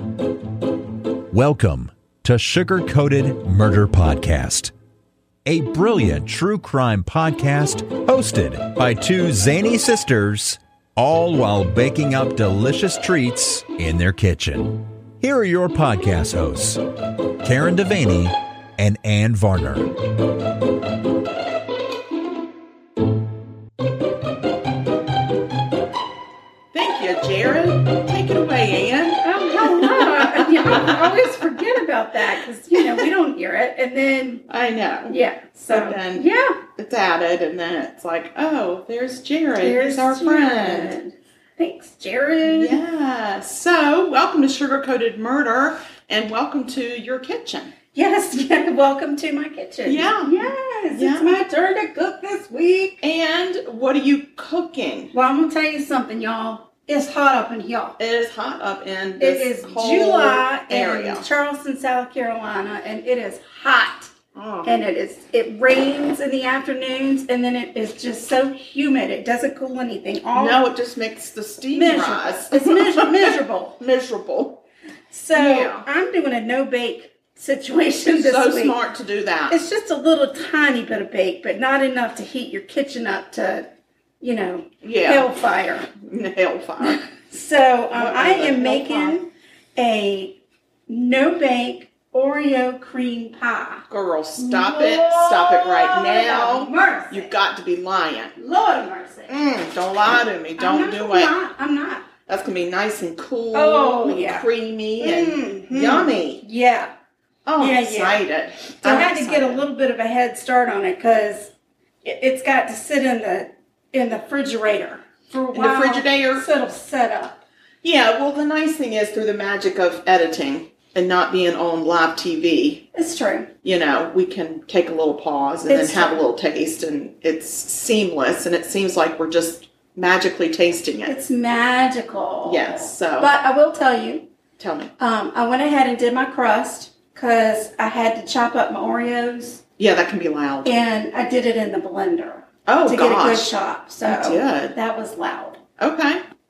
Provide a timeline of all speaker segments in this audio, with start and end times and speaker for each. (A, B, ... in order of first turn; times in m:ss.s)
0:01.3-0:04.7 A
0:05.4-0:16.8 A
0:17.4-0:20.0 A
0:26.7-0:31.5 B
0:29.2-0:34.4 C
0:32.7-0:33.1 B
0:34.5-0:35.2 B
0:35.1-0:36.6 C
0:35.7-0:40.9 B
0:39.6-0:42.8 C
0:42.5-0:47.7 B
0:47.9-0:53.0 C
0:49.8-0:51.4 B
0:53.0-0:55.1 B
0:55.1-0:58.0 C
0:58.0-1:01.3 B
0:59.2-1:04.1 C
1:04.3-1:04.7 B
1:04.6-1:10.6 C
1:10.3-1:14.6 B
1:11.7-1:13.8 C
1:15.1-1:18.8 C
1:15.3-1:15.9 B
1:18.1-1:19.6 B
1:19.5-1:23.7 C
1:24.2-1:25.9 C
1:24.8-1:25.3 B
1:26.0-1:27.0 B
1:26.8-1:30.4 C
1:27.9-1:29.2 B
1:30.9-1:33.8 C
1:33.9-1:38.3 B
1:34.4-1:37.3 C
1:38.4-1:39.3 C
1:39.3-1:41.3 B
1:40.6-1:42.1 C
1:42.3-1:46.4 B
1:43.5-1:44.5 C
1:45.0-1:46.9 C
1:47.4-1:49.6 B
1:47.6-1:48.2 C
1:48.8-1:51.5 C
1:52.0-1:57.4 C
1:55.5-1:56.5 B
1:57.8-2:02.9 B
2:02.9-2:03.5 C
2:03.6-2:11.1 B
2:05.7-2:06.3 C
2:11.1-2:14.3 C
2:12.4-2:13.3 B
2:14.6-2:14.9 B
2:15.0-2:19.6 C
2:19.8-2:20.8 B
2:20.6-2:25.6 C
2:22.7-2:23.5 B
2:24.0-2:24.8 B
2:25.8-2:26.2 B